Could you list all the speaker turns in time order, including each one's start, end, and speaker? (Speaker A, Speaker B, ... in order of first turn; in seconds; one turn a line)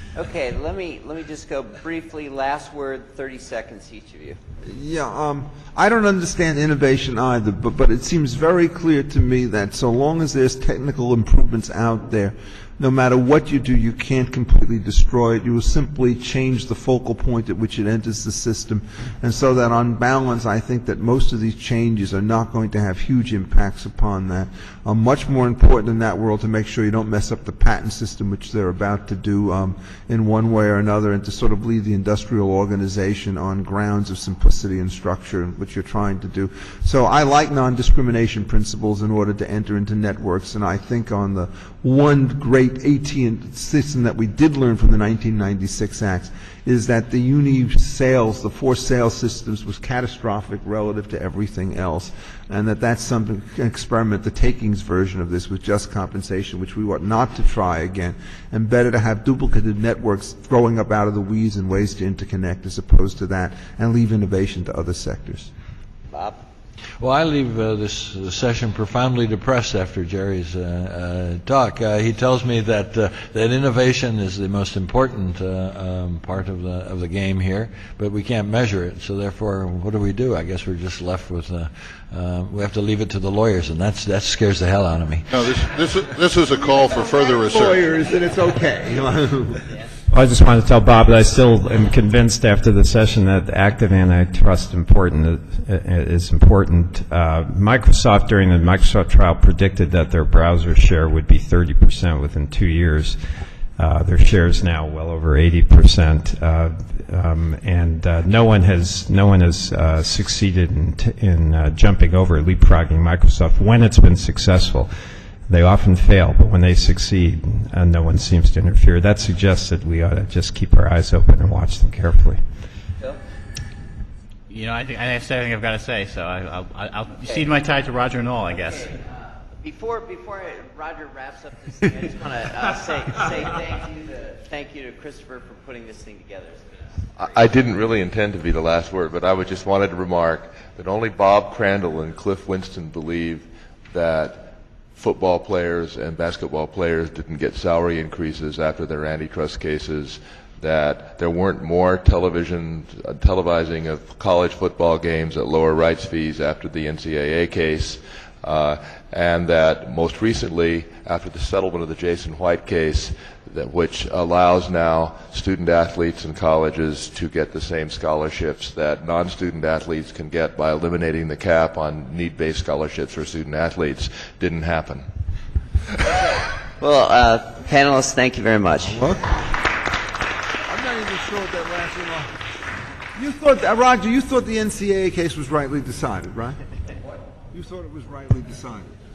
Speaker A: 0.1-4.4
Speaker B: 4.6-65.5
Speaker A: 66.1-66.4
Speaker C: 67.0-85.3
Speaker D: 85.3-87.9
Speaker B: 86.6-89.6
Speaker E: 90.1-103.2
Speaker E: 103.8-114.9
Speaker E: 115.5-122.4
Speaker F: 124.5-128.9
Speaker A: 127.2-127.5
Speaker A: 128.6-137.5
Speaker G: 137.2-175.1
Speaker A: 176.2-179.0
Speaker B: 178.9-179.4
Speaker B: 180.7-182.3
Speaker B: 183.2-186.6
Speaker B: 187.5-188.9